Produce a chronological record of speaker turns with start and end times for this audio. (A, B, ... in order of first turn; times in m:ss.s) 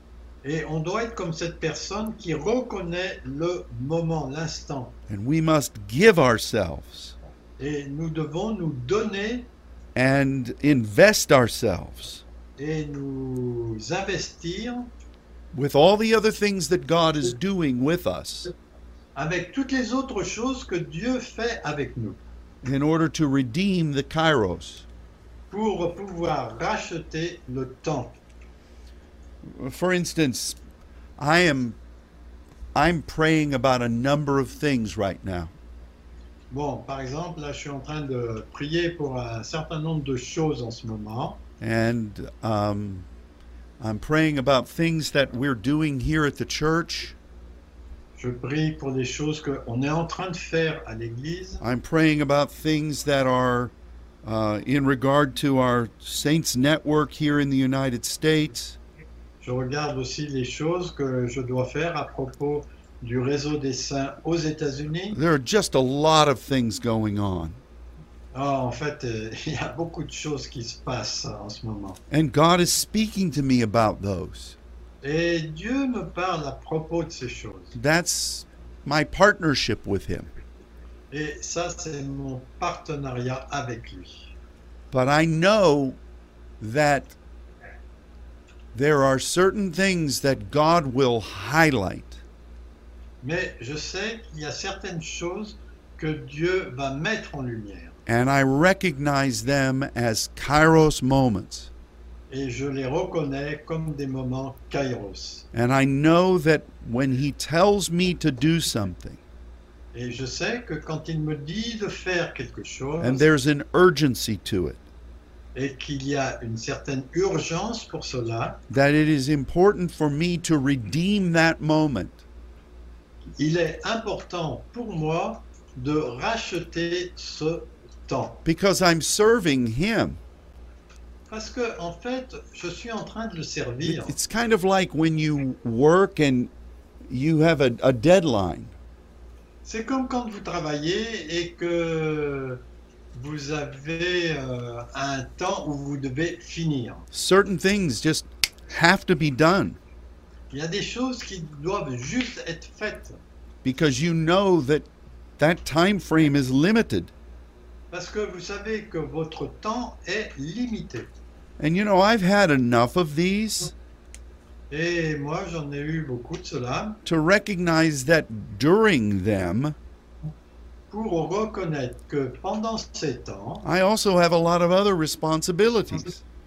0:00.4-0:05.0 A
0:05.1-0:07.2 B
0:07.6-0:09.5 A
0:10.0-0:12.2 B
0:12.6-0:14.9 A
0:15.5-0:18.5 B
0:19.2-0:22.2 A
0:22.6-0:24.9 B
0:25.5-0:28.2 A
0:29.5-0:30.6 B
0:31.2-0:31.8 B
0:32.8-0:35.5 B
0:36.5-0:41.4 A
0:41.6-0:43.1 B
0:43.8-0:47.2 B
0:48.2-0:51.6 A
0:51.6-0:53.7 B
0:54.2-0:58.8 B
0:59.4-1:05.2 A
1:05.1-1:07.6 B
1:08.3-1:12.0 A
1:12.1-1:14.6 B
1:15.0-1:17.8 A
1:17.7-1:20.3 B
1:21.1-1:24.3 A
1:24.9-1:26.0 B
1:26.6-1:27.2 B
1:28.7-1:32.2 B
1:33.2-1:38.0 A
1:38.1-1:41.7 B
1:42.3-1:45.4 A
1:45.5-1:49.2 B
1:49.9-1:53.3 A
1:53.0-1:54.8 B
1:55.6-1:58.6 A
1:58.7-2:02.2 B
2:03.4-2:08.4 A
2:08.4-2:10.2 B
2:11.3-2:14.2 A
2:13.8-2:16.5 B
2:17.1-2:18.8 B
2:19.6-2:27.0 A
2:27.1-2:29.8 B
2:30.5-2:33.2 A
2:33.6-2:37.1 B
2:37.9-2:41.1 A
2:41.6-2:43.7 B
2:44.7-2:47.0 A
2:47.0-2:49.8 B
2:50.9-2:53.7 A
2:53.6-2:56.2 B